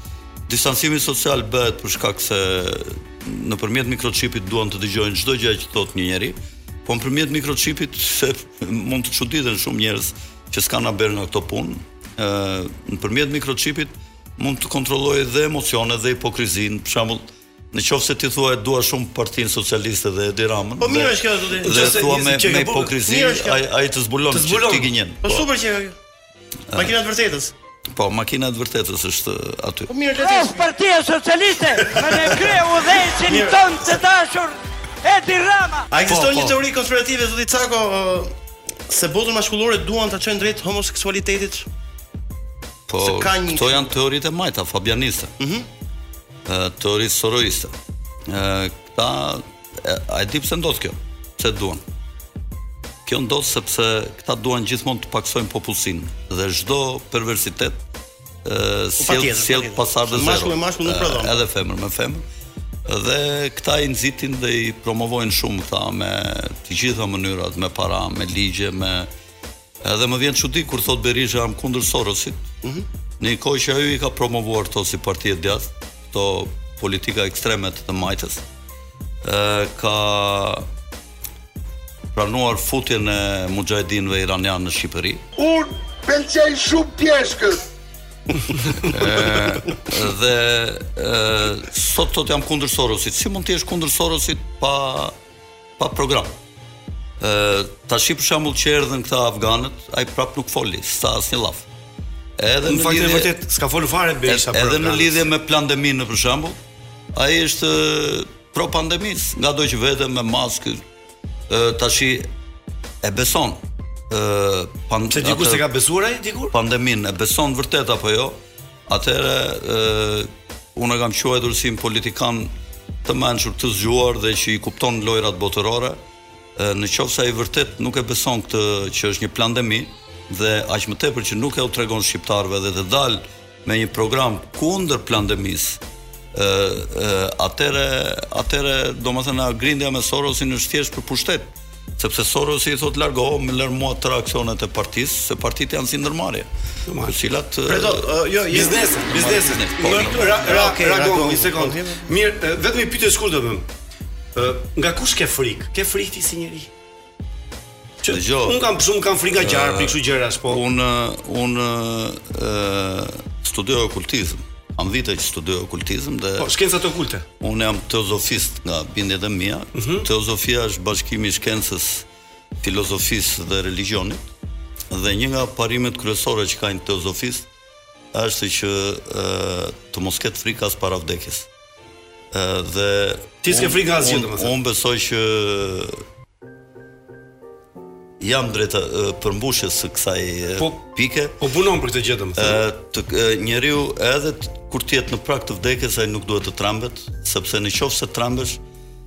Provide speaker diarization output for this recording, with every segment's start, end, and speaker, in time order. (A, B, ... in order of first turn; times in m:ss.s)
0:00.5-0:25.4 A
0:20.8-0:22.1 B
0:21.6-0:23.0 C
0:23.0-0:23.6 B
0:24.3-0:24.9 C
0:25.2-0:26.0 B
0:26.7-0:27.5 B
0:27.9-0:29.9 A
0:29.9-0:30.7 B
0:30.2-0:35.9 D
0:31.9-0:33.9 B
0:35.9-0:38.3 B
0:36.1-0:36.6 C
0:38.9-0:41.7 B
0:42.9-0:45.3 A
0:43.0-0:43.9 B
0:45.4-0:45.7 B
0:46.5-0:47.7 A
0:48.3-0:51.8 A
0:53.0-0:57.8 A
0:58.4-1:02.2 A
0:59.0-1:01.4 B
1:02.9-1:09.1 A
1:09.8-1:12.5 A
1:13.2-1:18.4 A
1:19.2-1:20.6 A
1:22.2-1:25.2 A
1:25.4-1:27.5 E
1:28.8-1:35.1 A
1:35.8-1:36.3 A
1:37.2-1:41.6 A
1:42.4-1:43.3 A
1:42.6-1:45.3 C
1:44.2-1:46.6 A
1:47.1-1:50.8 A
1:51.5-1:52.3 A
1:53.0-1:53.6 A
1:54.1-1:55.6 A
1:55.1-1:56.5 C
1:56.5-1:58.4 A
1:58.9-2:02.5 A
2:03.0-2:06.0 A
2:06.6-2:15.8 A
2:16.3-2:21.5 A
2:22.0-2:26.5 A
2:26.9-2:27.2 C
2:27.0-2:28.2 A
2:27.7-2:28.9 B
2:28.5-2:33.6 C
2:28.9-2:30.5 A
2:30.3-2:32.1 B
2:34.3-2:36.7 C
2:38.0-2:40.6 C
2:38.0-2:38.6 A
2:39.3-2:46.5 A
2:46.4-2:47.2 C
2:47.4-2:52.0 A
2:49.7-2:50.1 C
2:52.6-2:54.2 A
2:54.9-2:57.4 A
2:58.1-3:01.5 A
3:02.3-3:06.0 A
3:03.4-3:04.5 C
3:08.2-3:11.4 A
3:10.6-3:10.8 C
3:11.4-3:12.6 C
3:12.4-3:18.6 A